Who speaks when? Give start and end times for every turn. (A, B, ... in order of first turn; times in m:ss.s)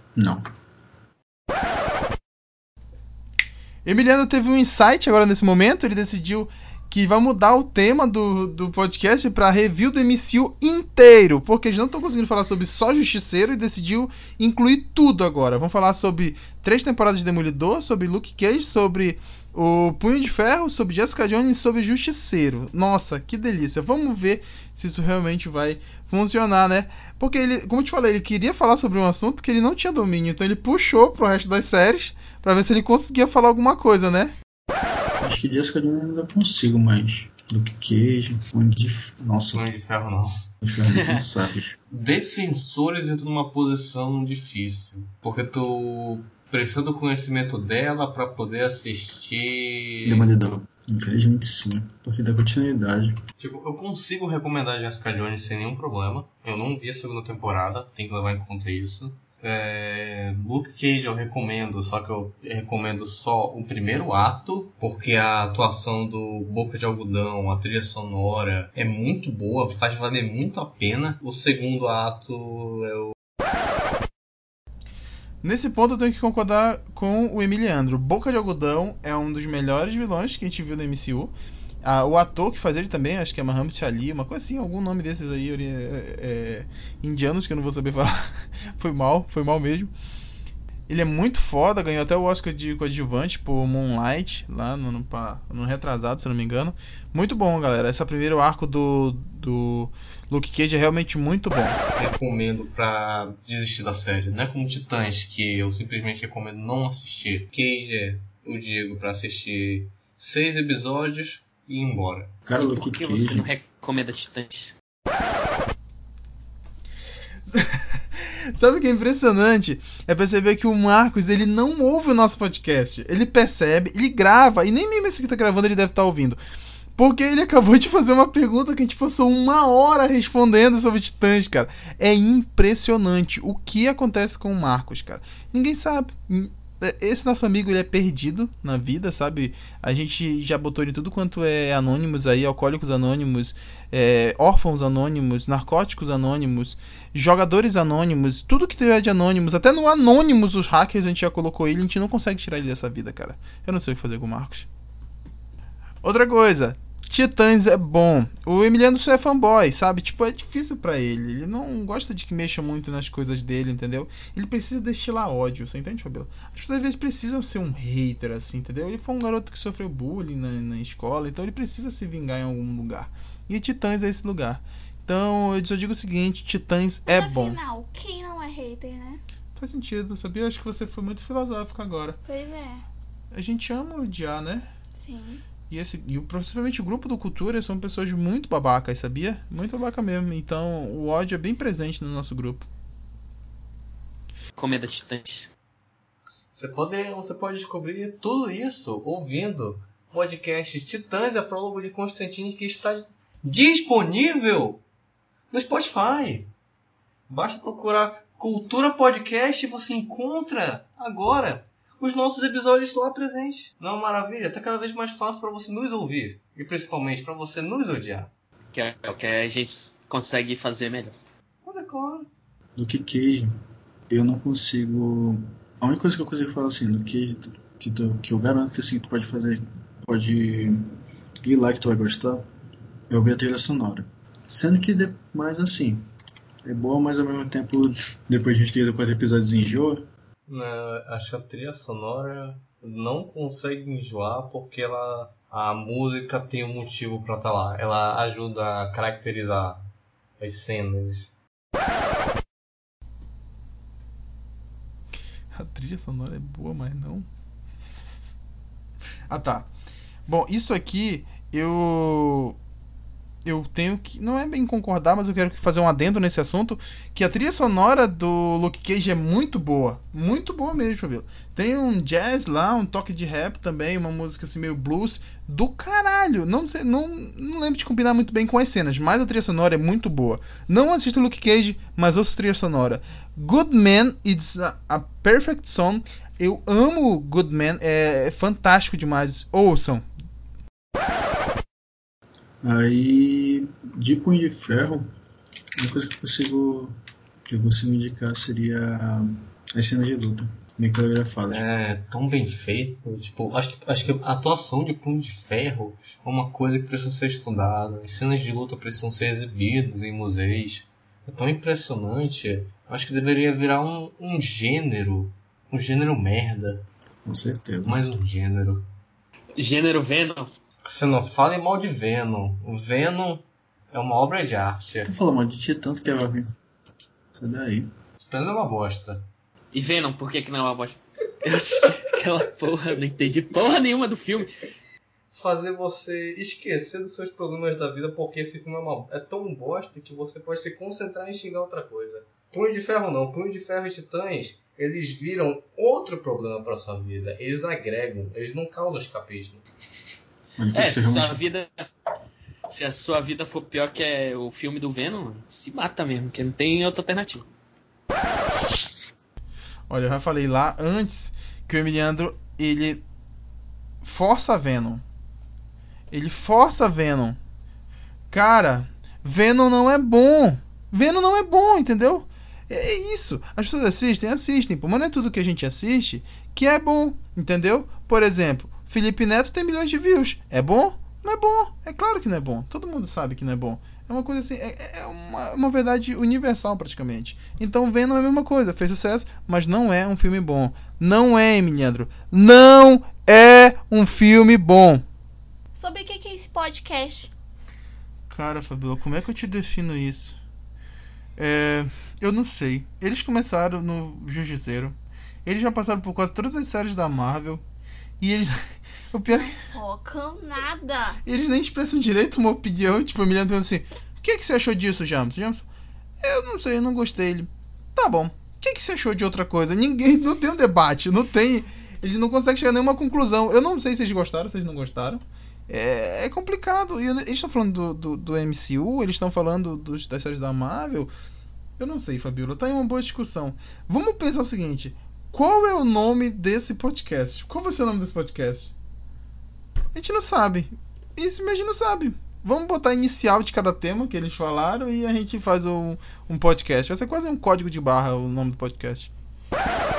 0:00.2-0:00.5 A
0:03.8-0:34.4 B
0:35.2-0:39.7 A
0:39.5-0:40.3 C
0:40.6-0:41.8 A
0:40.9-0:41.2 D
0:41.9-0:50.3 C
0:50.0-0:53.2 A
0:53.4-1:13.2 C
1:15.4-1:29.9 B
1:30.9-1:41.8 B
1:42.0-1:52.3 C
1:52.5-1:53.5 A
1:52.6-1:54.8 D
1:57.5-2:06.4 B
2:07.0-2:34.7 B
2:36.0-2:57.6 B
2:57.1-2:59.2 E
2:59.6-3:02.2 B
3:02.3-3:02.9 E
3:03.3-3:04.7 B
3:05.0-3:05.4 E
3:05.7-3:12.7 B
3:14.6-3:15.5 D
3:16.5-3:24.8 C
3:25.5-3:26.5 C
3:27.3-3:38.3 C
3:38.7-3:41.2 D
3:41.6-3:42.3 C
3:42.8-3:43.5 A
3:44.1-3:50.8 A
3:51.4-3:52.4 A
3:53.1-3:56.1 A
3:56.6-4:00.1 A
4:00.5-4:09.9 C
4:10.4-4:11.3 C
4:15.5-4:17.3 B
4:19.3-4:19.7 B
4:20.3-4:22.6 B
4:23.4-4:50.1 B
4:52.6-4:55.1 A
4:55.8-4:57.0 A
4:57.5-5:01.6 A
5:01.5-5:16.9 C
5:17.3-5:18.0 A
5:17.8-5:18.9 C
5:19.6-5:20.5 D
5:20.8-5:25.1 C
5:25.1-5:26.6 A
5:27.3-5:27.9 A
5:28.2-5:29.2 C
5:29.7-5:34.5 D
5:35.3-5:49.6 C
5:50.6-5:51.4 A
5:50.8-5:51.7 D
5:52.7-5:57.5 D
5:59.9-6:03.0 B
6:04.0-6:05.0 B
6:06.1-6:07.4 B
6:08.3-6:35.0 B
6:35.8-6:37.3 E
6:38.3-6:40.4 B
6:41.4-6:47.6 B
6:48.2-6:49.5 B
6:49.4-6:51.2 E
6:51.2-6:55.6 B
6:56.2-7:11.1 B
7:11.8-7:18.7 B
7:19.9-7:29.1 B